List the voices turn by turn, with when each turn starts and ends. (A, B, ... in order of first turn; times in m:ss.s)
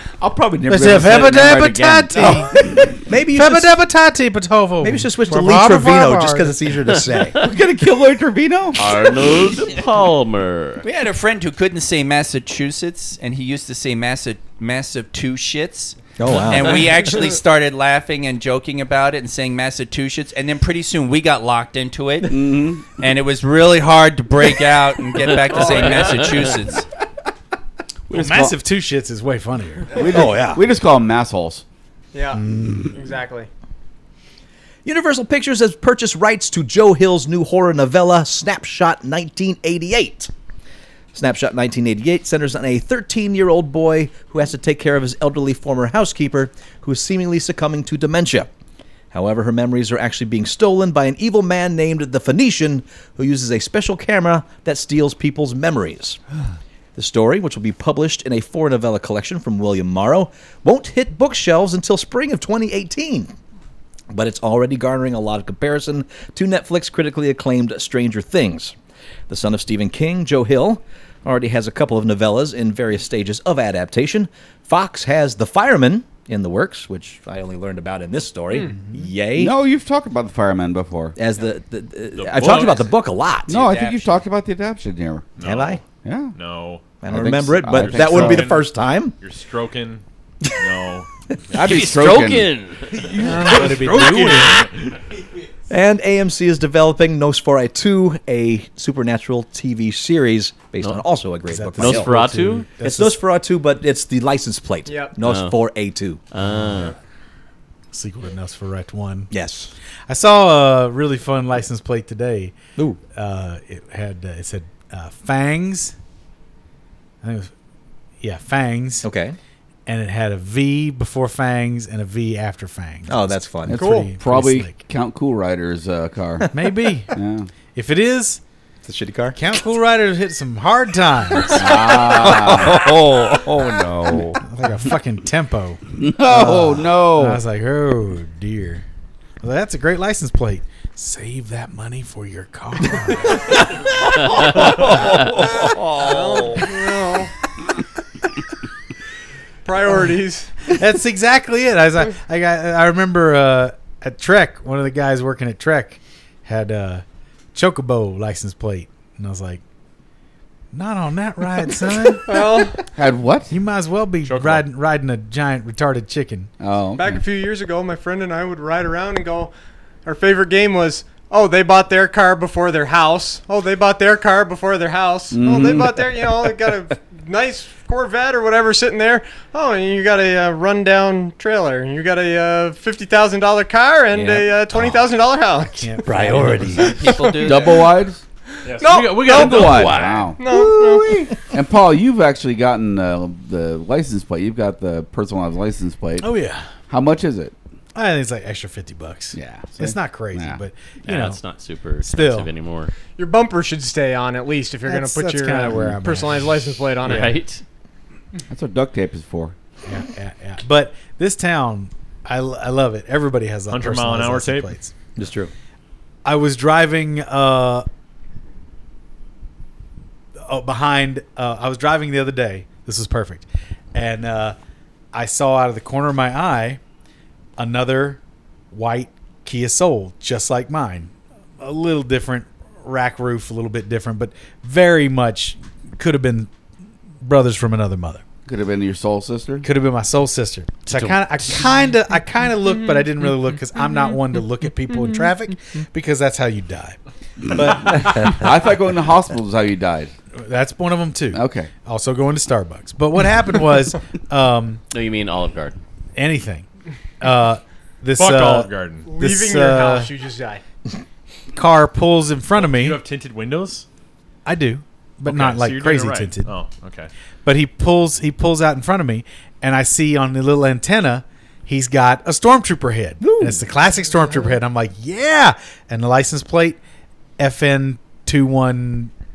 0:00.2-0:02.9 A
0:00.6-0:02.6 B
0:02.2-0:03.8 C
0:03.3-0:06.6 B
0:04.8-0:07.4 C
0:07.4-0:08.8 A
0:08.8-0:10.8 D
0:10.8-0:22.4 E
0:16.2-0:16.9 C
0:22.2-0:22.9 A
0:22.9-0:26.8 E
0:28.1-0:28.6 A
0:28.1-0:30.0 B
0:29.9-0:31.6 A
0:30.0-0:30.6 C
0:32.1-0:33.5 F
0:32.3-0:33.0 B
0:34.8-0:40.3 C
0:41.1-0:48.5 C
0:49.1-0:56.2 C
0:56.9-1:03.3 C
1:04.1-1:08.7 C
1:09.3-1:19.5 C
1:19.3-1:21.2 A
1:21.2-1:23.6 C
1:22.2-1:22.8 G
1:23.5-1:25.3 A
1:23.5-1:24.1 E
1:25.4-1:25.8 G
1:25.4-1:25.8 C
1:26.0-1:26.3 A
1:26.3-1:26.8 G
1:27.0-1:29.1 C
1:27.1-1:28.6 A
1:27.7-1:28.7 G
1:29.2-1:31.1 G
1:31.5-1:32.5 A
1:31.6-1:33.0 D
1:32.9-1:35.0 G
1:33.2-1:33.7 F
1:33.3-1:34.7 B
1:35.7-1:42.1 C
1:41.5-1:43.1 B
1:41.8-1:42.6 D
1:42.8-1:46.2 C
1:44.8-1:45.1 F
1:45.2-1:45.6 D
1:46.3-1:46.9 D
1:47.9-1:49.3 B
1:49.3-1:49.7 C
1:50.1-1:52.5 B
1:53.1-1:55.9 B
1:57.2-1:57.5 B
1:58.2-1:59.1 B
1:59.0-1:59.4 C
1:59.8-2:04.8 B
2:03.1-2:03.8 C
2:03.7-2:06.5 A
2:03.7-2:04.1 F
2:06.5-2:07.1 B
2:07.1-2:07.5 A
2:07.7-2:08.4 B
2:08.8-2:09.4 C
2:09.3-2:11.9 B
2:11.5-2:12.8 A
2:11.6-2:14.3 C
2:13.5-2:14.4 A
2:14.4-2:18.8 B
2:16.0-2:17.4 A
2:19.4-2:23.6 B
2:24.1-2:26.6 C
2:24.3-2:24.6 B
2:25.9-2:27.3 F
2:29.6-2:30.5 F
2:30.7-2:37.0 B
2:37.5-2:39.6 B
2:40.7-2:42.7 B
2:42.3-2:42.8 F
2:42.9-2:43.5 A
2:43.5-2:46.5 B
2:44.2-2:44.6 G
2:46.6-2:47.2 A
2:47.0-2:49.5 F
2:50.0-3:06.1 F
2:55.3-2:56.1 A
3:05.8-3:07.0 B
3:06.0-3:07.0 C
3:06.7-3:07.8 E
3:07.0-3:07.5 F
3:07.3-3:08.2 A
3:08.6-3:10.2 G
3:08.7-3:11.3 F
3:08.9-3:10.4 A
3:10.5-3:11.2 C
3:11.5-3:16.3 A
3:16.2-3:16.6 B
3:16.9-3:17.5 A
3:17.9-3:21.4 B
3:19.3-3:20.6 A
3:21.0-3:22.9 D
3:22.0-3:22.5 B
3:23.2-3:27.4 F
3:24.8-3:26.6 B
3:27.0-3:27.6 D
3:28.5-3:29.5 A
3:29.8-3:34.9 B
3:33.7-3:34.7 G
3:35.2-3:35.5 C
3:36.2-3:37.8 B
3:40.4-3:44.6 B
3:45.1-3:46.8 B
3:47.6-3:48.2 B
3:48.7-3:56.5 B
3:57.2-3:58.2 B
3:58.4-3:59.7 A
3:59.6-4:07.0 B
4:00.9-4:01.2 D
4:07.5-4:08.4 B
4:08.3-4:10.1 A
4:10.4-4:14.8 B
4:11.3-4:11.7 A
4:14.9-4:15.8 D
4:16.2-4:16.6 B
4:17.2-4:20.1 B
4:18.2-4:19.1 G
4:19.0-4:20.6 F
4:21.5-4:23.0 B
4:22.6-4:23.8 G
4:24.4-4:26.5 B
4:25.2-4:27.1 G
4:27.4-4:36.8 B
4:33.2-4:33.6 C
4:37.4-4:39.1 B